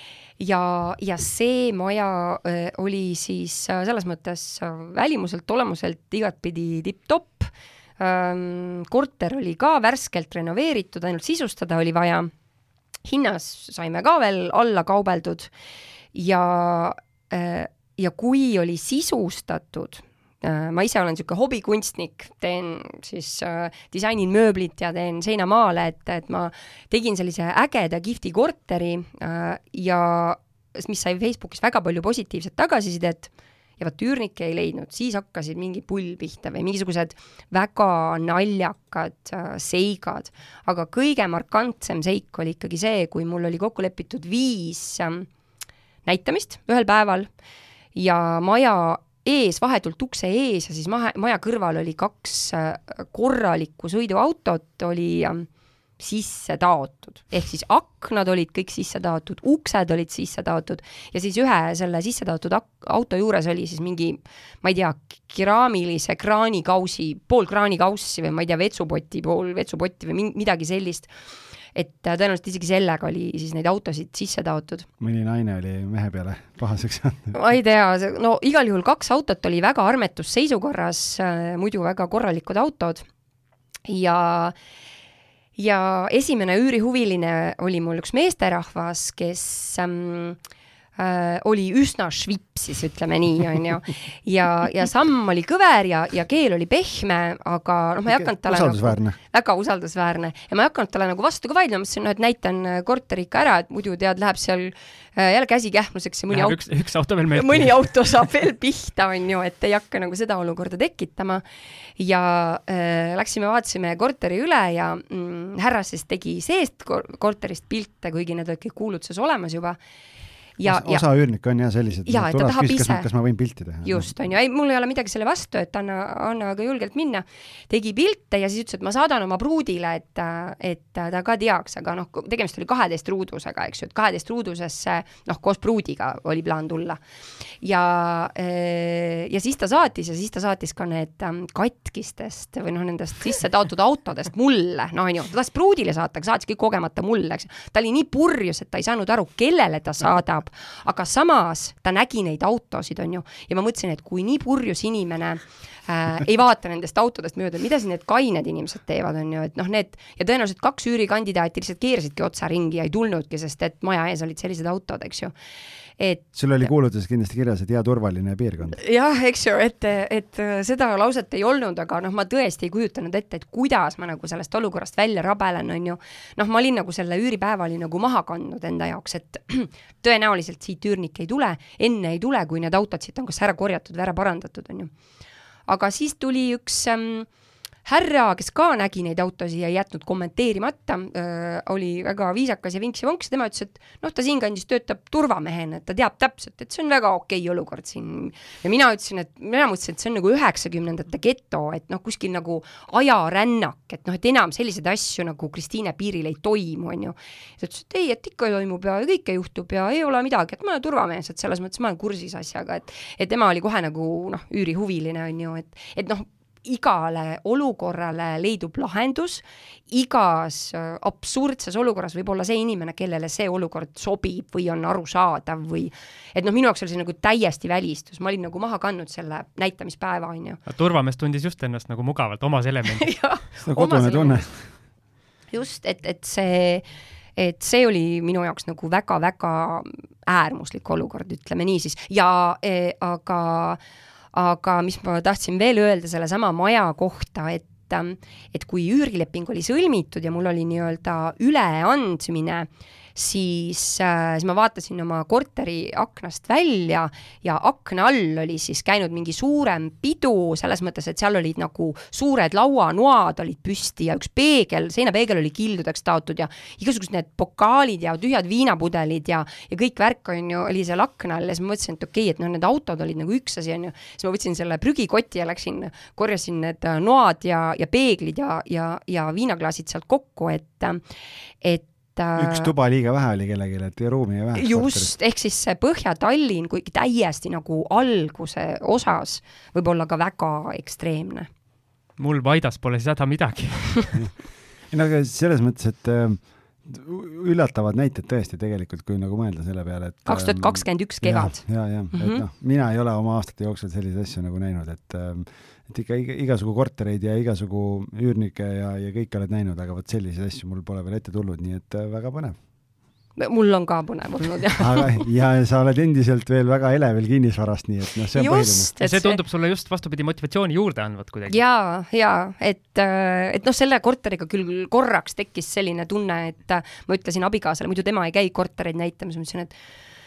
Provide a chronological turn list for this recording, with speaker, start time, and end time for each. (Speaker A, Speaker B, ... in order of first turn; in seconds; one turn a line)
Speaker A: 0.4-12.3
Speaker A: 13.1-15.5
Speaker A: 16.1-45.3
Speaker A: 46.0-47.3
Speaker A: 48.0-55.5
Speaker A: 56.0-71.1
Speaker A: 71.8-74.9
Speaker B: 75.0-77.4
Speaker A: 77.3-83.1
Speaker A: 83.9-84.5
Speaker A: 85.6-90.4
Speaker A: 91.0-106.7
Speaker B: 98.1-99.2
Speaker C: 106.3-107.7
Speaker A: 107.3-111.4
Speaker A: 112.0-119.8
Speaker A: 120.6-121.0
Speaker B: 120.6-124.1
Speaker A: 122.1-123.1
Speaker A: 123.8-137.0
Speaker A: 137.6-165.3
Speaker A: 166.0-166.7
Speaker B: 166.3-168.8
Speaker A: 168.8-184.9
Speaker A: 185.7-187.3
Speaker A: 187.8-230.6
Speaker C: 230.7-233.1
Speaker A: 233.0-234.5
Speaker B: 233.6-234.6
Speaker A: 235.5-236.8
Speaker A: 237.4-243.8
Speaker A: 244.3-281.0
Speaker A: 281.6-282.7
Speaker B: 282.4-285.1
Speaker A: 284.6-291.5
Speaker C: 292.2-294.2
Speaker B: 294.9-312.6
Speaker A: 300.3-302.4
Speaker A: 313.4-315.3
Speaker B: 314.8-318.9
Speaker A: 318.3-319.4
Speaker C: 319.0-321.6
Speaker A: 321.5-329.7